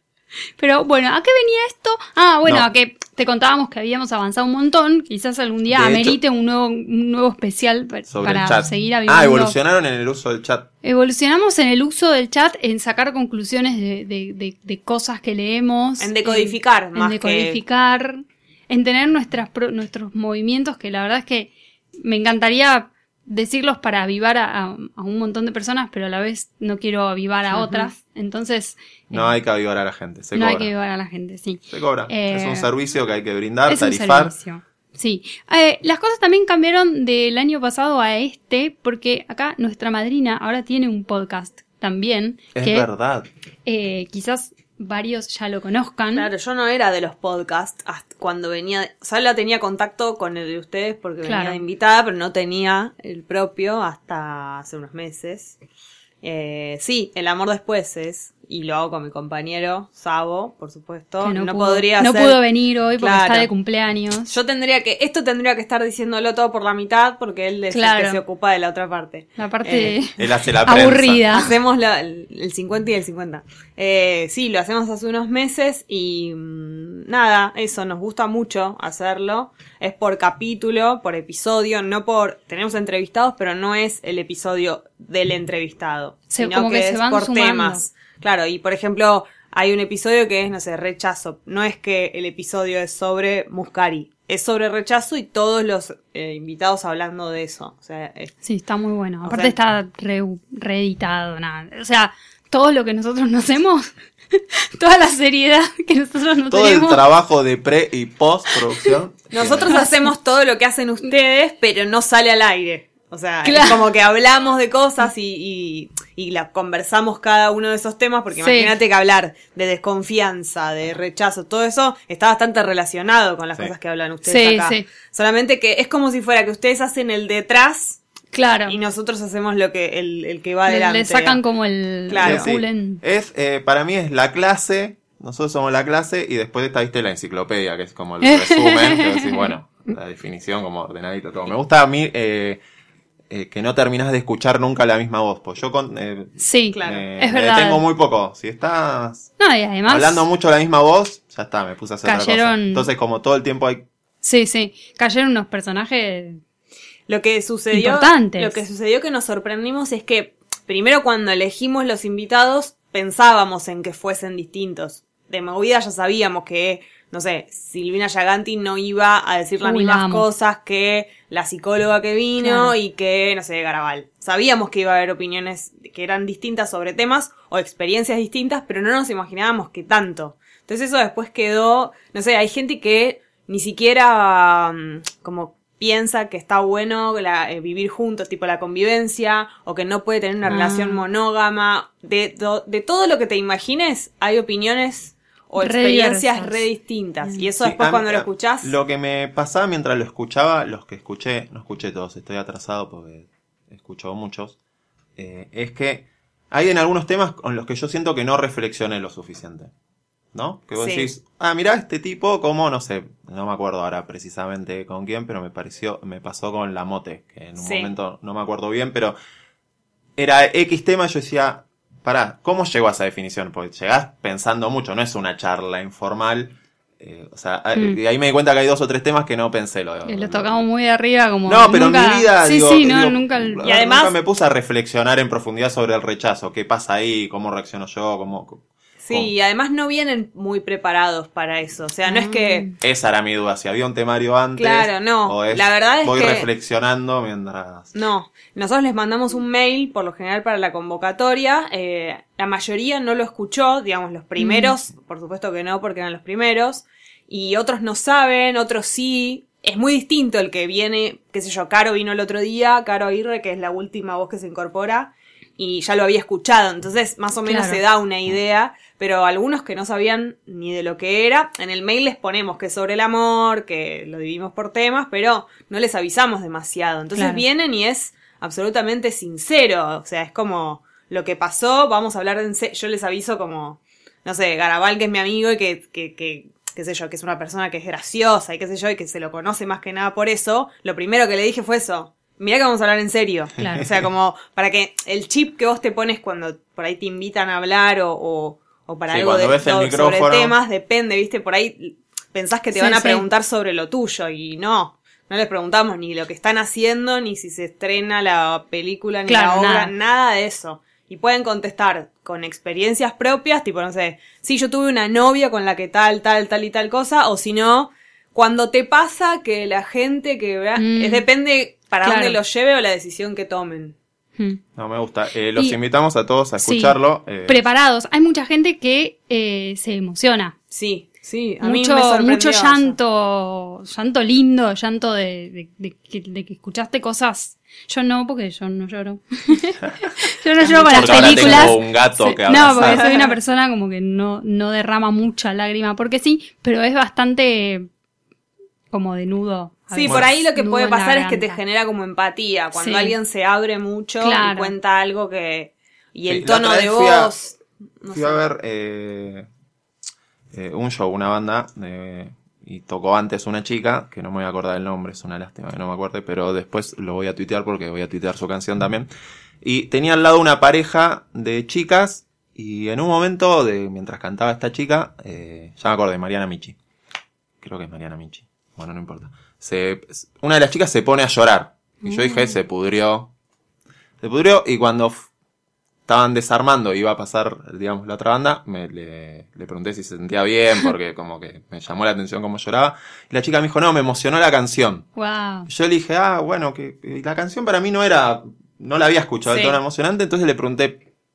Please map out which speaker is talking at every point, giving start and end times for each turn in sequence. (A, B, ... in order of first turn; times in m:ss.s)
0:00.6-0:09.6 A
0:05.7-0:06.2 B
0:08.1-0:10.7 B
0:10.8-0:29.3 A
0:16.0-0:17.6 C
0:27.5-0:27.9 C
0:29.1-0:30.7 B
0:30.3-0:32.7 A
0:31.7-0:34.4 B
0:33.7-0:42.9 A
0:42.6-0:43.3 B
0:43.6-0:46.3 A
0:46.2-0:55.6 C
0:51.2-0:51.6 A
0:56.2-1:02.4 C
1:01.2-1:04.3 A
1:03.0-1:03.5 C
1:04.3-1:10.0 C
1:07.7-1:08.2 A
1:09.4-1:11.5 A
1:10.2-1:11.3 B
1:11.3-1:38.4 C
1:26.3-1:27.8 A
1:38.4-1:47.0 A
1:39.2-1:39.5 C
1:46.5-1:49.7 B
1:49.3-2:08.0 C
1:49.7-1:50.1 A
1:53.4-1:53.8 A
1:58.4-1:58.7 A
2:04.2-2:04.9 A
2:08.3-2:08.8 A
2:08.7-2:11.4 C
2:10.7-2:13.0 A
2:12.1-2:12.5 C
2:12.2-2:22.6 B
2:18.2-2:19.5 A
2:23.3-2:29.3 B
2:26.4-2:27.8 A
2:26.7-2:27.0 C
2:29.4-2:30.2 A
2:29.9-2:33.8 B
2:32.0-2:32.9 A
2:34.2-2:36.4 A
2:37.1-3:18.7 C
2:37.7-2:38.6 A
2:49.6-2:50.3 A
2:52.4-2:52.7 A
3:10.5-3:11.0 A
3:15.6-3:16.7 A
3:17.6-3:24.6 B
3:25.2-3:29.7 B
3:30.3-3:39.2 B
3:30.8-3:31.1 C
3:37.6-3:37.9 C
3:40.2-3:50.6 B
3:50.0-3:53.7 A
3:51.5-3:59.3 B
3:53.6-3:54.2 C
3:59.0-4:02.7 C
4:02.1-4:02.7 A
4:02.8-4:07.9 B
4:04.6-4:06.5 C
4:08.0-5:24.0 C
4:14.4-4:14.7 A
4:27.4-4:27.8 A
4:37.2-4:37.4 A
4:53.6-4:53.8 A
4:59.1-5:00.6 B
5:02.7-5:03.2 A
5:09.3-5:09.9 A
5:20.8-5:21.2 A
5:22.0-5:22.4 A
5:24.8-5:27.6 B
5:26.6-5:30.6 A
5:30.7-5:33.0 C
5:31.6-5:47.9 A
5:40.8-5:41.8 C
5:40.8-5:43.0 B
5:42.8-5:43.3 C
5:48.9-5:51.6 A
5:49.9-5:58.4 C
5:52.8-5:53.2 A
5:54.2-5:54.7 A
5:56.3-5:57.3 B
5:58.1-5:59.5 B
6:00.5-6:09.1 B
6:09.6-6:16.8 B
6:17.6-6:23.3 B
6:22.0-6:22.6 A
6:24.2-6:25.3 B
6:26.1-6:35.1 B
6:35.2-6:35.7 A
6:35.7-6:41.0 B
6:39.5-6:39.8 C